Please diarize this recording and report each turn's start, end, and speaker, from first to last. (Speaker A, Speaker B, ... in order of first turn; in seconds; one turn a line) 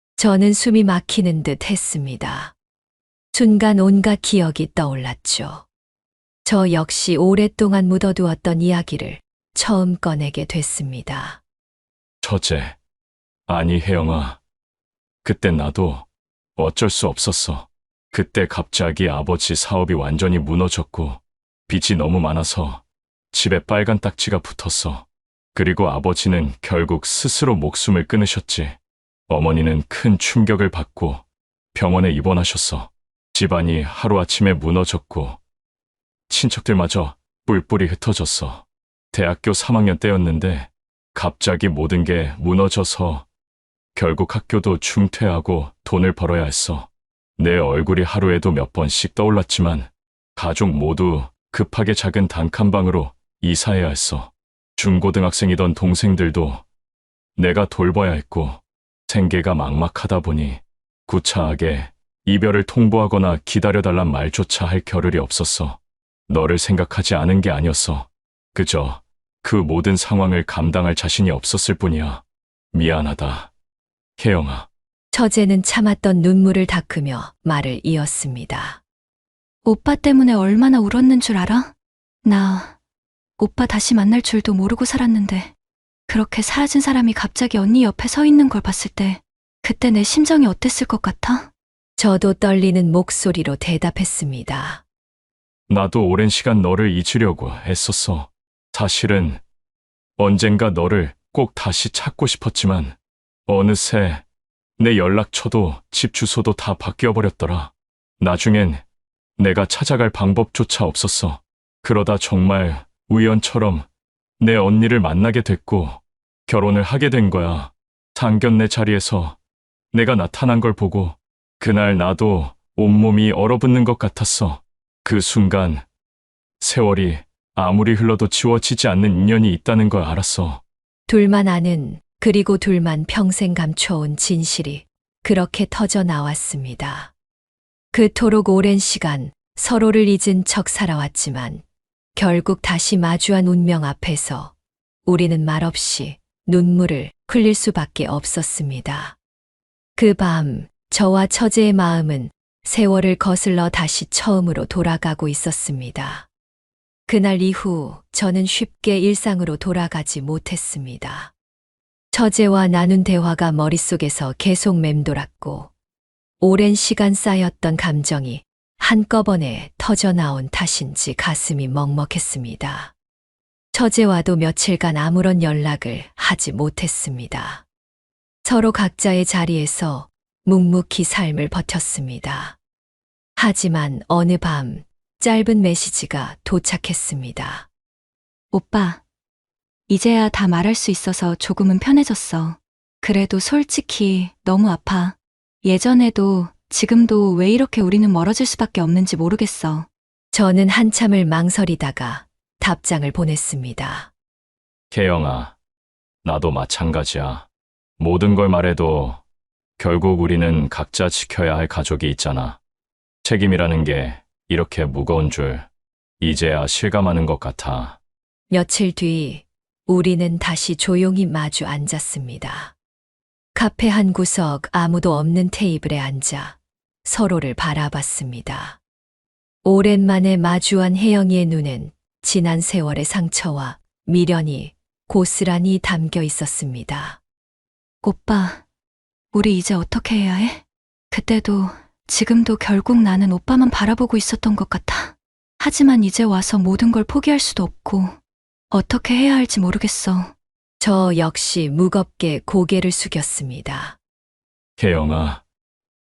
Speaker A: 0.2-2.5
Speaker A: 3.3-5.7
Speaker A: 6.5-11.4
Speaker B: 12.2-12.8
Speaker B: 13.5-14.4
Speaker B: 15.2-16.1
Speaker B: 16.6-28.8
Speaker B: 29.3-31.2
Speaker B: 31.7-35.4
Speaker B: 36.3-43.2
Speaker B: 44.0-56.6
Speaker B: 57.4-72.2
Speaker B: 72.7-73.5
Speaker B: 74.2-74.7
Speaker A: 75.1-78.8
Speaker C: 79.7-81.7
Speaker C: 82.2-82.8
Speaker C: 83.4-85.5
Speaker C: 86.1-91.5
Speaker A: 92.0-94.8
Speaker B: 95.7-99.4
Speaker B: 100.2-103.0
Speaker B: 103.5-104.2
Speaker B: 104.8-108.8
Speaker B: 109.4-113.8
Speaker B: 114.4-119.4
Speaker B: 119.9-125.8
Speaker B: 126.6-130.6
Speaker A: 131.1-137.1
Speaker A: 137.9-141.6
Speaker A: 142.2-144.5
Speaker A: 145.1-149.2
Speaker A: 150.0-156.3
Speaker A: 157.1-161.3
Speaker A: 162.1-165.7
Speaker A: 166.4-172.9
Speaker A: 173.7-177.6
Speaker A: 178.4-182.6
Speaker A: 183.4-187.7
Speaker C: 188.5-189.0
Speaker C: 189.9-199.9
Speaker A: 200.3-204.1
Speaker B: 204.9-205.5
Speaker B: 206.2-207.5
Speaker B: 208.0-209.2
Speaker B: 209.8-212.6
Speaker B: 213.2-215.7
Speaker B: 216.2-218.0
Speaker A: 218.5-222.7
Speaker A: 223.6-228.8
Speaker A: 229.6-237.2
Speaker C: 238.0-238.6
Speaker C: 239.3-248.2
Speaker C: 248.7-250.3
Speaker A: 250.8-254.0
Speaker B: 254.8-255.4